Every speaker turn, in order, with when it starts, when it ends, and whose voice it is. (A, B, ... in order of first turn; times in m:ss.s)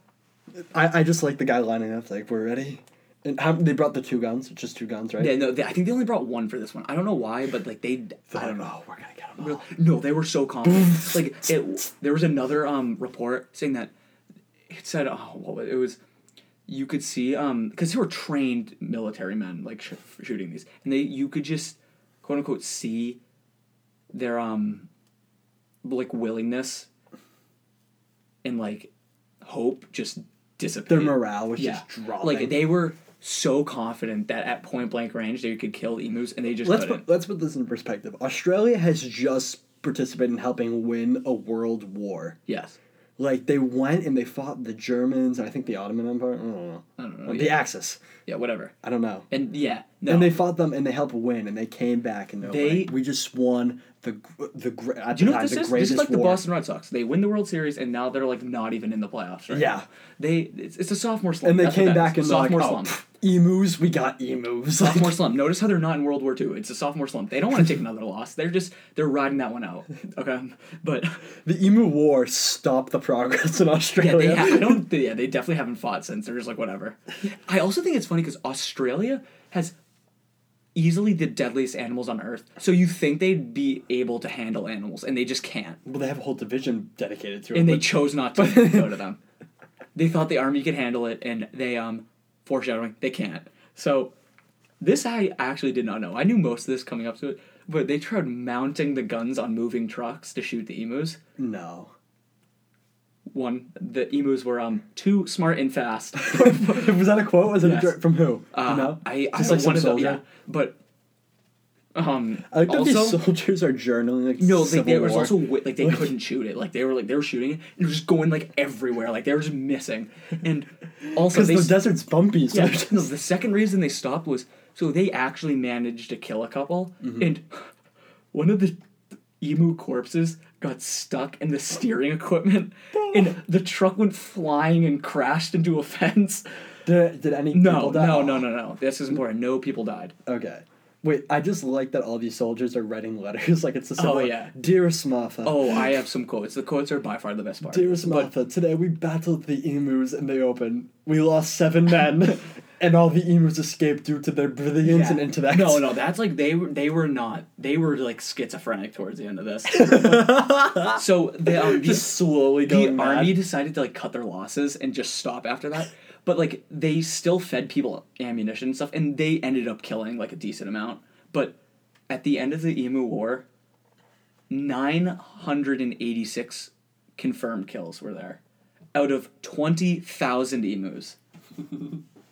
0:00.6-0:05.4 A
0:05.2-0:08.7 B
0:08.3-0:09.7 A
0:09.4-0:13.9 B
0:10.6-0:11.2 A
0:14.7-0:16.0 B
0:16.7-0:23.2 B
0:24.1-0:24.9 B
0:25.8-0:26.9 B
0:28.4-0:28.9 B
0:29.4-0:37.0 B
0:30.9-0:32.6 A
0:36.6-0:42.4 A
0:42.5-0:42.8 B
0:43.2-0:48.0 A
0:47.0-0:47.6 B
0:48.3-0:48.7 B
0:48.8-0:49.3 A
0:49.3-0:50.4 B
0:50.1-0:56.4 A
0:52.4-0:52.9 B
0:55.1-1:03.0 B
0:59.5-0:59.9 A
1:01.4-1:05.2 A
1:04.8-1:11.2 B
1:11.4-1:14.9 A
1:14.0-1:19.8 B
1:20.8-1:25.8 B
1:25.8-1:28.9 A
1:27.5-1:29.2 B
1:30.0-1:34.1 B
1:34.8-1:41.2 B
1:41.4-1:41.9 A
1:43.3-1:47.0 B
1:46.2-1:50.2 A
1:47.6-1:48.0 B
1:48.5-1:50.8 B
1:52.0-1:53.2 B
1:52.5-1:56.2 A
1:54.4-2:01.9 B
2:01.1-2:03.1 A
2:02.5-2:07.6 B
2:07.0-2:07.3 A
2:08.3-2:08.8 B
2:09.4-2:16.4 B
2:13.0-2:13.3 A
2:16.8-2:18.5 A
2:17.5-2:20.2 B
2:20.3-2:25.9 A
2:24.0-2:24.5 B
2:25.4-2:28.3 B
2:27.7-2:35.9 A
2:34.8-2:51.6 B
2:39.7-2:43.4 A
2:52.1-2:53.5 B
2:54.5-2:58.4 B
2:58.9-3:01.2 B